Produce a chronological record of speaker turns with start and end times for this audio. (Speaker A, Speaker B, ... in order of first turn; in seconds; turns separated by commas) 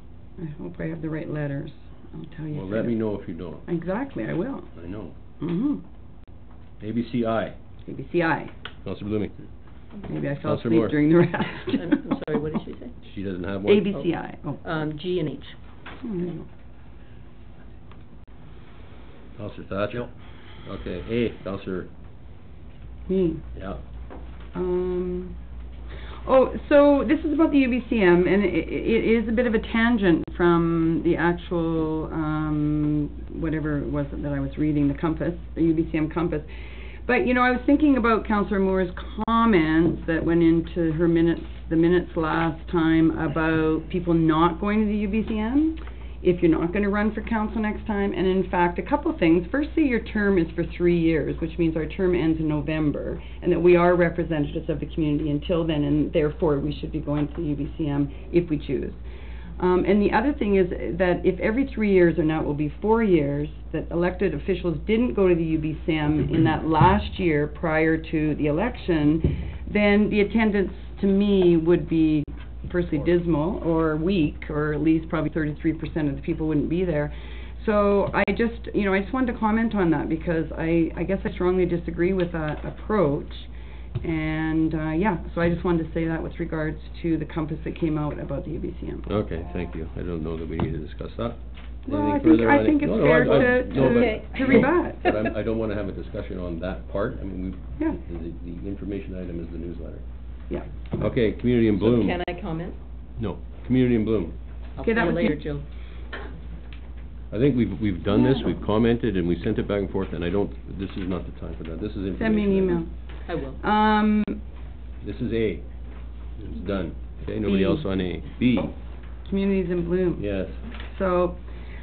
Speaker A: 0.4-3.0, Speaker B: 2.5-3.7, Speaker A: 3.6-4.7, Speaker B: 4.8-5.2, Speaker A: 5.4-5.8, Speaker B: 6.8-7.6, Speaker A: 7.9-8.5, Speaker B: 8.8-9.3, Speaker A: 10.1-12.1, Speaker B: 10.4-11.0, Speaker C: 11.7-13.1, Speaker B: 13.1-13.9, Speaker A: 13.7-14.6, Speaker C: 13.8-15.6, Speaker A: 16.0-16.5, Speaker B: 19.4-20.1, Speaker B: 20.6-21.9, Speaker A: 23.1-23.5, Speaker A: 24.5-25.4, Speaker A: 26.2-36.5, Speaker A: 37.0-59.0, Speaker A: 59.6-83.5, Speaker A: 84.0-89.1, Speaker B: 89.1-100.0, Speaker A: 91.9-95.2, Speaker C: 93.3-95.2, Speaker A: 100.5-100.9, Speaker B: 101.0-102.2, Speaker C: 101.8-102.8, Speaker B: 103.2-104.4, Speaker C: 104.8-105.7, Speaker A: 104.8-105.4, Speaker B: 107.3-112.8, Speaker A: 108.1-108.5, Speaker A: 112.2-113.0, Speaker C: 113.3-113.6, Speaker A: 113.6-114.4, Speaker B: 115.0-115.7, Speaker B: 116.4-118.8, Speaker A: 117.4-117.8, Speaker A: 119.2-120.3, Speaker B: 120.2-120.6, Speaker A: 120.8-121.4